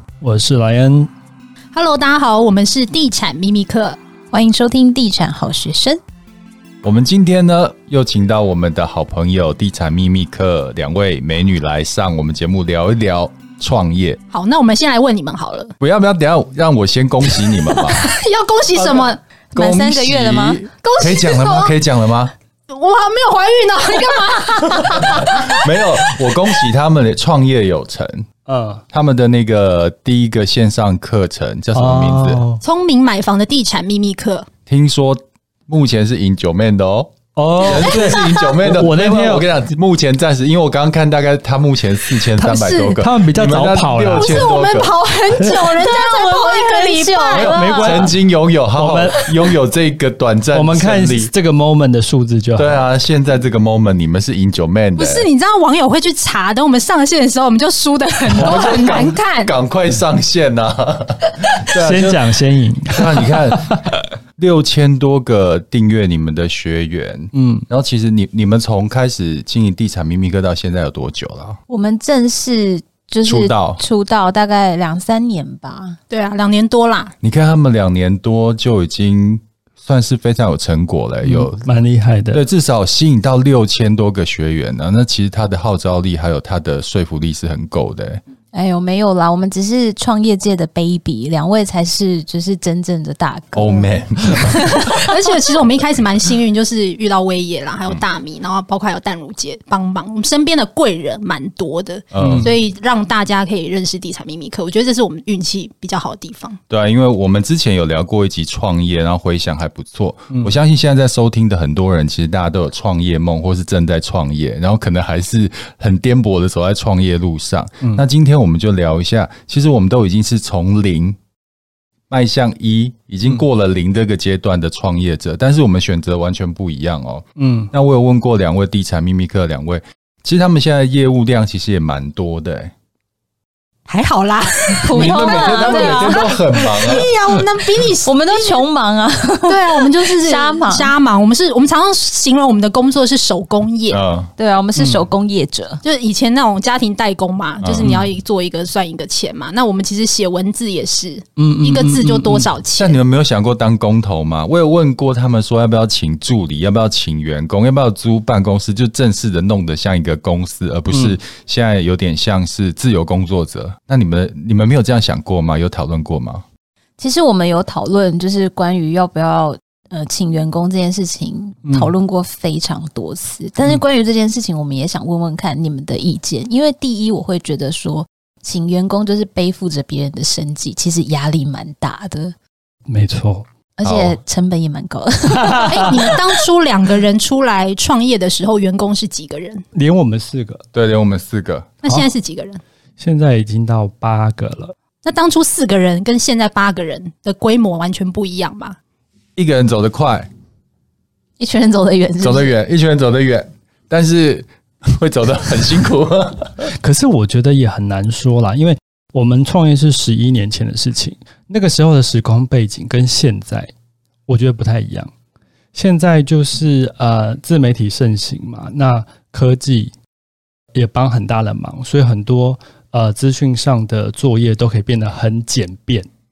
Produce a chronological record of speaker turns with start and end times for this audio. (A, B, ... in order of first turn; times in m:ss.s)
0:00.2-0:01.1 A
0:01.7-0:04.0 B
0:04.3-0:06.0 C
0:06.8-0:14.2 D
0:14.3-0:15.7 B
0:15.8-0:18.1 D
0:17.5-0:19.2 B
0:19.5-0:20.6 C
0:19.5-0:22.3 D
0:20.8-0:21.8 B
0:22.7-0:25.6 B
0:25.0-0:28.2 D
0:28.4-0:28.8 A
0:28.9-0:32.4 D
0:31.7-0:32.6 A
0:32.6-0:34.5 B
0:34.7-0:44.9 D
0:37.4-0:39.4 A
0:37.7-0:38.5 B
0:42.4-0:44.4 A
0:44.1-0:47.7 B
0:45.5-0:48.1 C
0:47.3-0:51.3 D
0:47.4-0:48.2 A
0:48.7-0:49.3 A
0:50.5-0:52.8 A
0:52.6-0:55.3 D
0:55.0-0:59.5 B
0:58.3-1:02.2 D
1:01.8-1:03.8 A
1:02.9-1:11.6 D
1:07.3-1:07.6 A
1:11.7-1:16.0 C
1:13.2-1:13.8 D
1:16.1-1:17.1 B
1:17.2-1:21.6 D
1:21.2-1:22.4 A
1:22.3-1:28.2 D
1:28.5-1:35.1 C
1:33.5-1:34.8 D
1:34.8-1:46.6 B
1:42.1-1:42.5 D
1:42.2-1:42.5 A
1:46.7-2:01.2 D
2:02.1-2:12.7 D
2:07.4-2:07.7 A
2:13.9-2:18.6 B
2:14.8-2:16.3 C
2:14.9-2:17.1 D
2:18.0-2:20.9 C
2:19.5-2:24.0 B
2:23.9-2:24.3 D
2:24.4-2:25.8 C
2:24.8-2:25.1 A
2:25.8-2:33.0 B
2:27.6-2:27.9 D
2:27.8-2:28.1 A
2:31.4-2:32.5 A
2:32.7-2:46.4 D
2:40.9-2:41.2 A
2:47.0-3:02.3 C
2:51.6-2:51.9 A
3:02.9-3:03.4 A
3:03.8-3:06.0 C
3:03.8-3:04.2 D
3:05.3-3:06.1 A
3:05.6-3:09.6 B
3:09.7-3:10.6 A
3:10.7-3:11.7 D
3:11.8-3:12.6 B
3:13.0-3:14.7 A
3:15.0-3:18.8 B
3:19.4-3:20.3 D
3:21.4-3:22.5 C
3:22.2-3:26.7 D
3:26.6-3:33.7 A
3:34.3-3:35.1 A
3:35.7-3:39.9 A
3:40.7-3:46.1 A